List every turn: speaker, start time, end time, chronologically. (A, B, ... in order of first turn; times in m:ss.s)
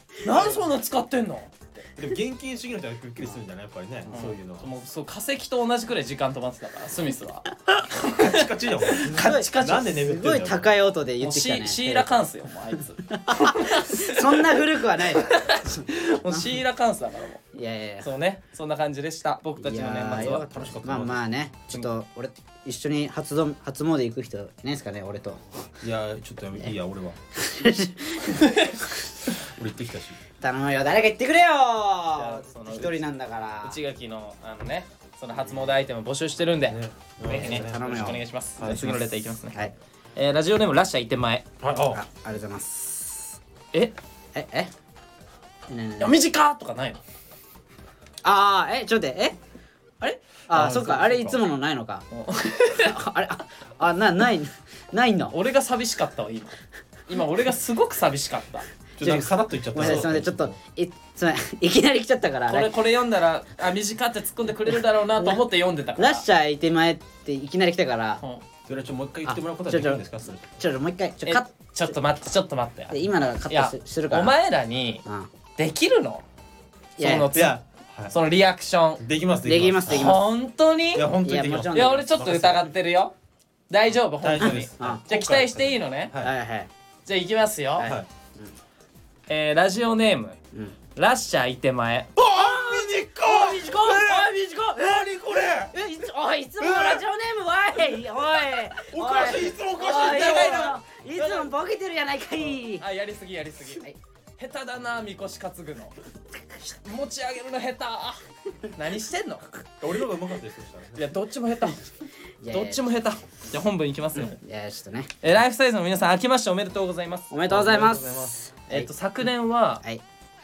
0:00.2-0:01.9 A
0:00.3-0:00.6 B
0:02.0-0:04.7 C
0:04.1-0:09.9 A
0:08.2-0:10.7 C
0:09.1-0:12.2 B
0:11.2-0:14.4 A
0:13.1-0:16.5 B
0:15.3-0:17.4 A
0:17.5-0:18.1 B
0:18.0-0:20.4 A
0:19.6-0:25.7 B
0:20.1-0:21.2 C
0:25.8-0:27.2 C
0:27.4-0:28.6 B
0:28.4-0:28.7 A
0:29.4-0:30.2 C
0:30.4-0:33.8 B
0:32.2-0:33.1 A
0:33.6-0:39.6 A
0:35.4-0:35.7 B
0:36.7-0:39.1 C
0:37.3-0:38.2 B
0:40.2-0:41.4 A
0:41.6-0:42.0 C
0:41.9-0:43.4 B
0:44.3-0:44.7 B
0:45.7-0:46.1 B
0:46.0-0:47.0 A
0:48.2-0:49.4 B
0:50.0-0:52.0 B
0:50.5-0:51.4 C
0:52.1-0:53.0 A
0:52.8-0:55.3 B
0:55.3-0:58.7 A
0:59.0-1:00.6 C
0:59.0-1:02.7 B
1:02.5-1:06.2 A
1:06.0-1:08.2 B
1:08.7-1:10.5 C
1:09.3-1:11.5 B
1:11.3-1:15.0 A
1:12.9-1:14.3 B
1:15.6-1:16.2 A
1:17.0-1:19.0 A
1:17.0-1:17.3 B
1:17.3-1:18.1 C
1:19.0-1:20.1 C
1:19.4-1:20.2 B
1:19.9-1:21.1 A
1:20.9-1:22.7 C
1:21.2-1:22.0 B
1:21.7-1:23.1 A
1:23.7-1:26.1 A
1:24.2-1:26.3 C
1:24.4-1:25.0 B
1:26.2-1:26.7 B
1:27.0-1:27.9 A
1:27.8-1:28.5 B
1:29.3-1:30.4 A
1:31.0-1:32.1 A
1:32.1-1:35.7 C
1:32.3-1:35.0 B
1:35.7-1:42.8 B
1:36.6-1:37.0 C
1:38.9-1:40.8 C
1:39.8-1:41.5 A
1:42.4-1:43.8 A
1:44.4-1:46.0 A
1:46.6-1:49.5 A
1:49.8-1:51.0 C
1:51.0-1:51.8 A
1:52.4-1:52.8 B
1:52.5-1:54.4 A
1:54.2-1:55.1 B
1:55.2-1:59.8 A
1:57.3-1:58.9 B
1:57.5-1:58.2 C